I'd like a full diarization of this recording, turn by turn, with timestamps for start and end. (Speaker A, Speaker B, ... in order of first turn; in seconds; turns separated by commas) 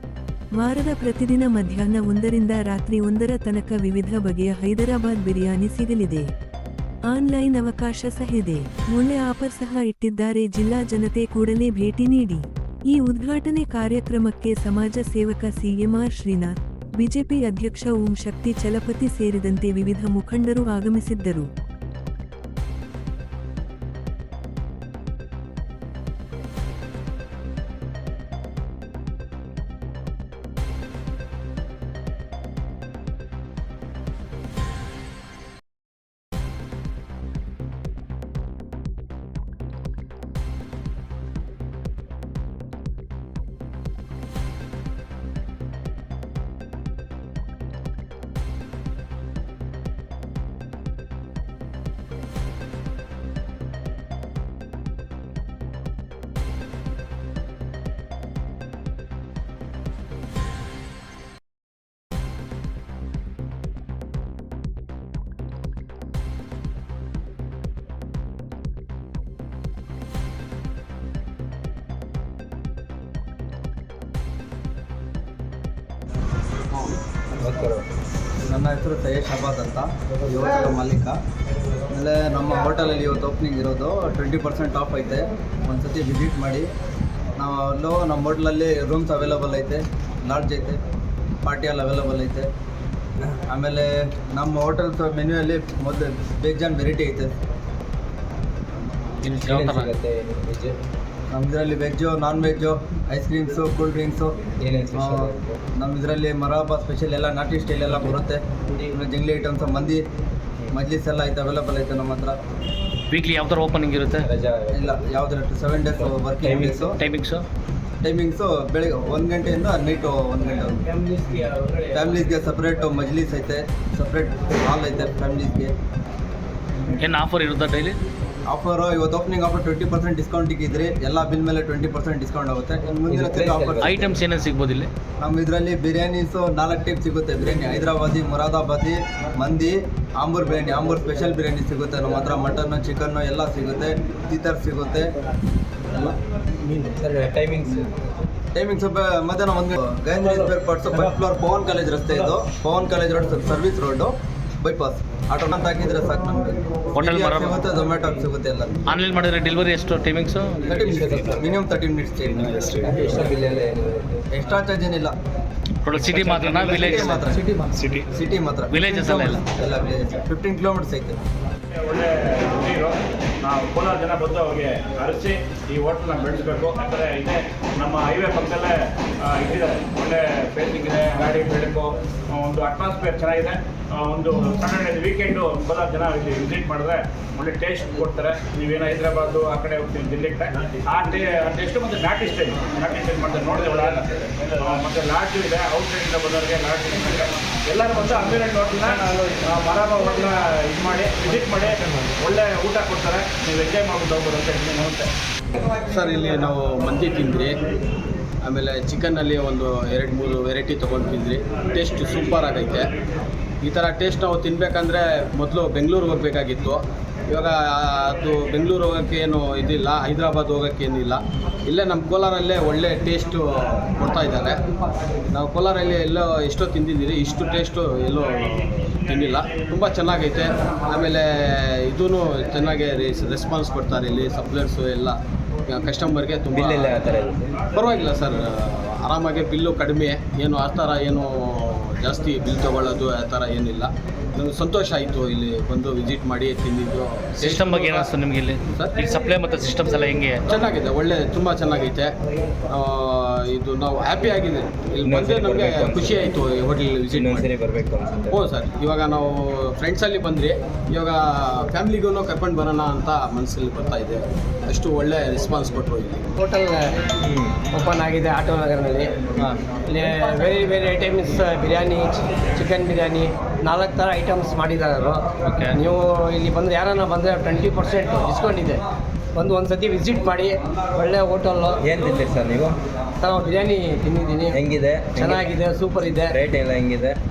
Speaker A: 0.6-6.3, Speaker A: 7.1-21.5, Speaker B: 77.4-77.8, Speaker C: 78.5-81.2, Speaker C: 81.9-86.7, Speaker C: 87.4-90.8, Speaker C: 91.4-92.5, Speaker C: 93.5-97.4, Speaker D: 99.2-99.9, Speaker B: 99.3-100.8, Speaker C: 101.3-104.4, Speaker B: 104.5-105.6, Speaker C: 104.9-110.1, Speaker C: 110.7-112.4, Speaker D: 113.1-114.3, Speaker B: 114.2-115.0, Speaker C: 114.7-117.0, Speaker B: 116.0-116.9, Speaker D: 117.0-117.5, Speaker C: 118.0-120.9, Speaker B: 121.1-121.6, Speaker C: 121.9-125.7, Speaker D: 127.0-128.0, Speaker C: 128.5-134.1, Speaker B: 133.1-133.9, Speaker D: 133.8-134.9, Speaker C: 135.2-145.1, Speaker B: 146.7-147.9, Speaker C: 148.5-158.8, Speaker D: 157.0-157.6, Speaker D: 158.9-160.8, Speaker C: 160.7-162.6, Speaker B: 160.8-161.4, Speaker B: 162.4-164.2, Speaker C: 164.3-165.1, Speaker D: 165.8-167.3, Speaker E: 166.0-166.7, Speaker C: 166.7-167.5, Speaker C: 168.1-171.2, Speaker D: 168.7-169.4, Speaker E: 171.8-205.1, Speaker F: 205.9-207.6, Speaker F: 208.4-212.9, Speaker F: 213.6-224.6, Speaker F: 225.3-237.2, Speaker B: 236.5-237.5, Speaker F: 237.7-248.1, Speaker D: 247.4-250.4, Speaker F: 250.5-252.1, Speaker F: 252.7-257.5, Speaker B: 255.1-256.4, Speaker B: 257.1-258.4, Speaker F: 258.3-266.3, Speaker G: 266.4-266.9, Speaker B: 267.2-267.6, Speaker G: 267.7-269.1, Speaker G: 269.9-278.8, Speaker D: 275.4-275.8, Speaker G: 279.4-281.8, Speaker B: 281.8-282.8, Speaker G: 283.2-284.6, Speaker B: 284.5-285.6, Speaker G: 285.2-286.4, Speaker B: 286.2-287.2